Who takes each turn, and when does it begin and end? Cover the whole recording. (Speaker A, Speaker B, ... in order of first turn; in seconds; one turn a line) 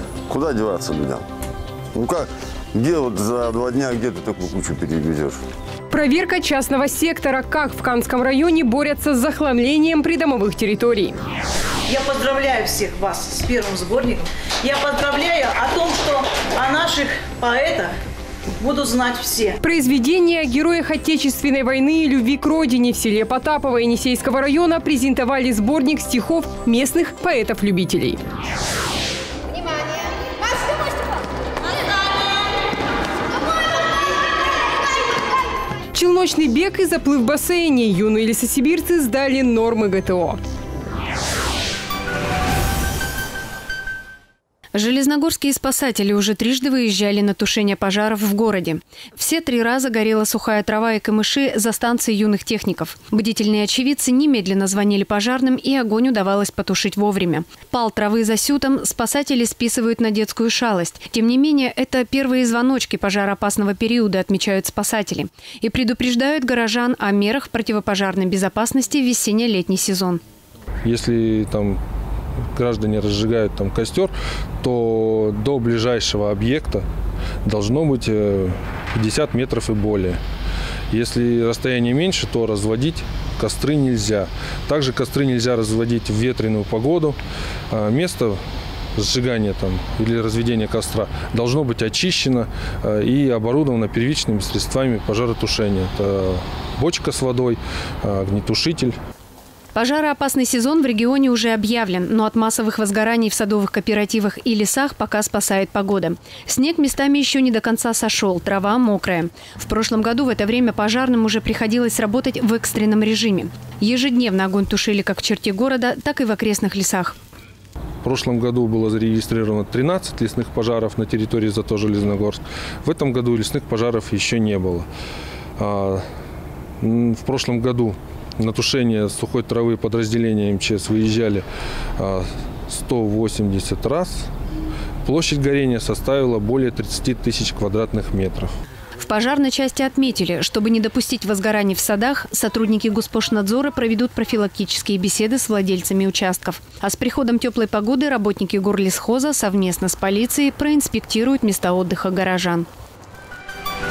Speaker A: 0.3-1.2
Speaker A: 1.9-5.4
Speaker B: 5.9-11.1
Speaker C: 11.9-17.9
Speaker C: 18.6-19.5
Speaker B: 19.6-28.2
Speaker B: 35.9-40.4
Speaker D: 44.7-70.2
Speaker E: 70.8-71.8
Speaker E: 72.5-76.8
Speaker E: 77.4-80.2
Speaker E: 80.9-87.2
Speaker E: 87.7-88.4
Speaker E: 89.0-99.0
Speaker D: 99.7-117.1
Speaker E: 118.0-124.9
Speaker E: 125.6-126.0
Speaker E: 126.8-131.4
Speaker E: 132.0-134.3
Speaker E: 135.0-138.5
Speaker D: 139.1-152.7